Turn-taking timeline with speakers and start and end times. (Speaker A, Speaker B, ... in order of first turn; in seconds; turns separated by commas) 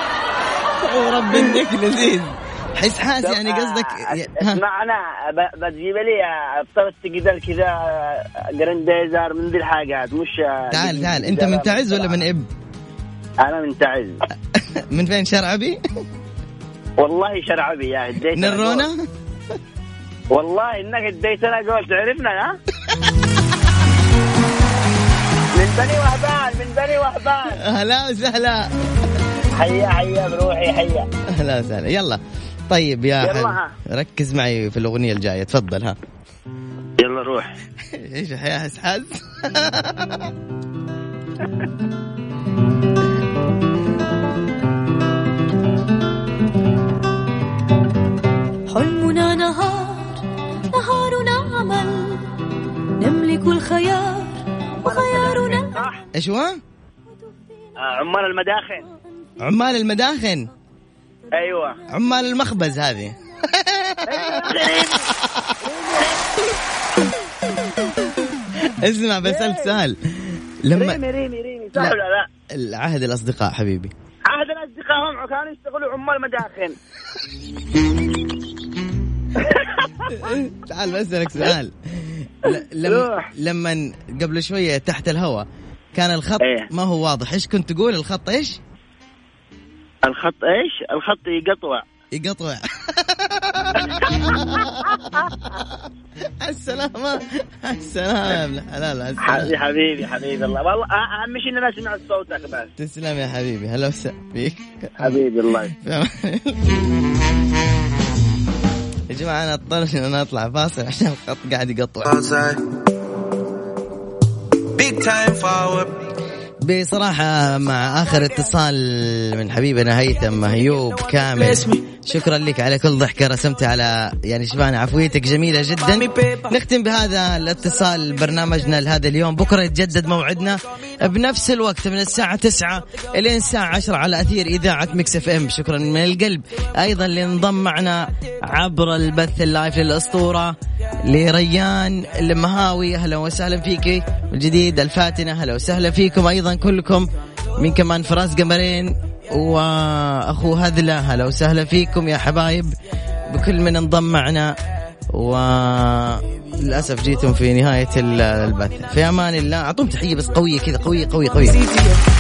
Speaker A: 0.8-4.6, Speaker B: 3.2-12.2, Speaker A: 10.7-12.4, Speaker B: 13.4-14.2, Speaker A: 14.6-15.8, Speaker B: 17.0-18.9, Speaker A: 18.4-19.0, Speaker B: 20.3-22.6, Speaker B: 25.6-27.6, Speaker A: 27.6-28.7, Speaker B: 29.6-31.1, Speaker A: 31.3-36.0, Speaker B: 33.2-33.7, Speaker B: 37.0-37.5, Speaker A: 37.9-40.3, Speaker C: 48.7-52.4, Speaker C: 53.0-56.1, Speaker B: 54.8-56.0, Speaker A: 56.1-56.6, Speaker C: 57.1-59.1, Speaker B: 57.8-58.8, Speaker A: 59.4-60.5, Speaker B: 61.3-61.8, Speaker C: 61.4-61.8, Speaker A: 61.9-64.9, Speaker B: 64.0-65.1, Speaker B: 65.6-66.2, Speaker A: 68.6-71.0, Speaker B: 69.2-69.8, Speaker B: 70.8-72.3, Speaker A: 72.5-73.9, Speaker B: 74.3-76.8, Speaker B: 79.4-79.8, Speaker A: 80.1-88.6, Speaker B: 82.9-83.2, Speaker B: 86.4-86.7, Speaker B: 90.1-91.8, Speaker A: 92.1-95.7, Speaker B: 93.8-94.3, Speaker A: 96.4-99.5, Speaker B: 99.2-102.7, Speaker A: 102.8-106.6, Speaker B: 105.0-105.7, Speaker A: 109.1-112.1, Speaker D: 112.1-112.6, Speaker D: 114.8-115.9, Speaker A: 116.6-152.8, Speaker D: 121.3-121.8, Speaker D: 125.9-126.5, Speaker A: 153.3-154.6, Speaker A: 155.1-161.6, Speaker D: 161.5-162.0